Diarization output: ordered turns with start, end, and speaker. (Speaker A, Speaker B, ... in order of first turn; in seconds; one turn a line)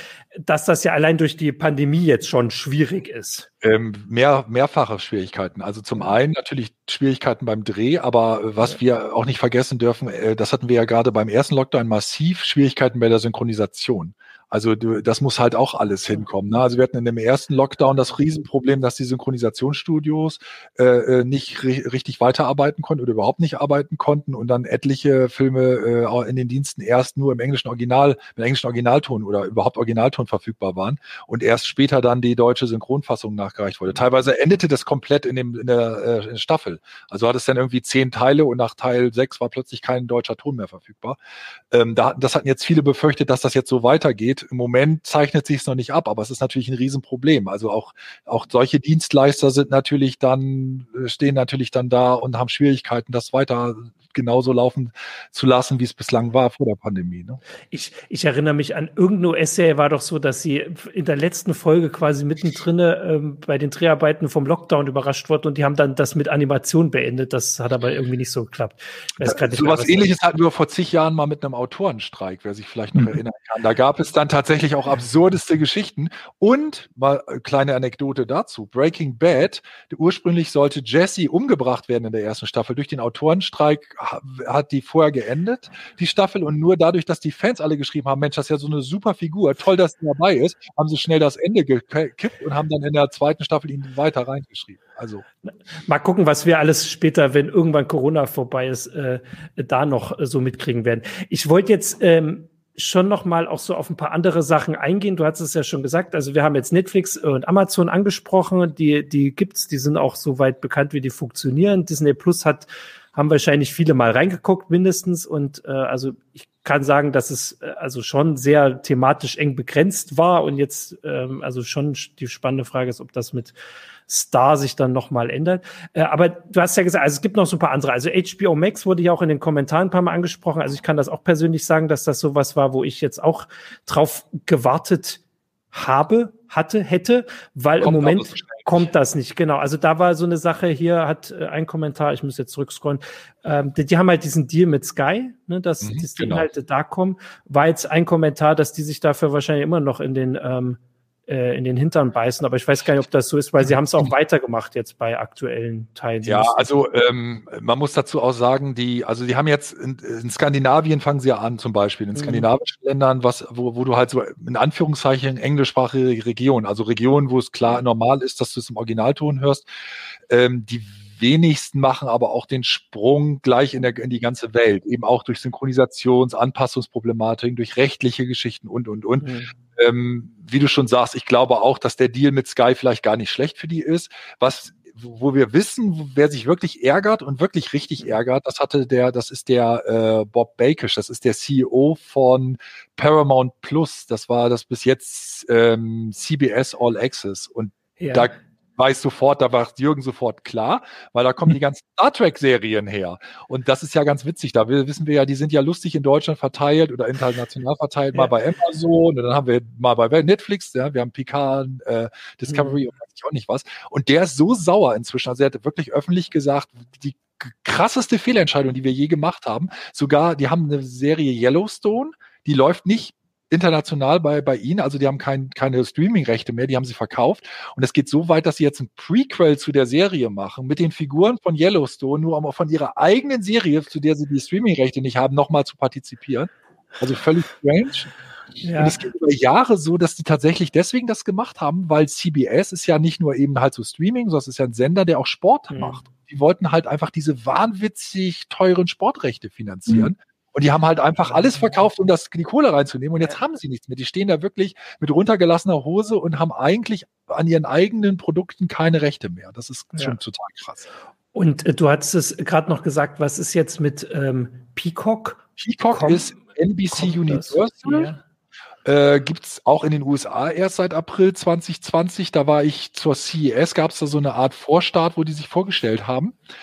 Speaker A: 0.4-3.5
Speaker B: 3.6-41.2
Speaker B: 41.7-57.4
Speaker A: 57.7-70.1
Speaker B: 69.2-95.2
Speaker A: 95.5-123.5
Speaker A: 124.1-135.2
Speaker A: 135.7-156.7
Speaker B: 137.8-138.9
Speaker B: 145.8-146.5
Speaker B: 156.2-169.7
Speaker A: 162.1-162.5
Speaker B: 170.3-238.1
Speaker A: 179.2-179.5
Speaker A: 198.0-198.3
Speaker A: 212.5-212.8
Speaker A: 238.6-239.0
Speaker B: 238.8-260.9
Speaker A: 245.7-246.0
Speaker A: 261.3-266.3
Speaker B: 265.6-268.1
Speaker A: 266.9-268.2
Speaker B: 268.8-276.3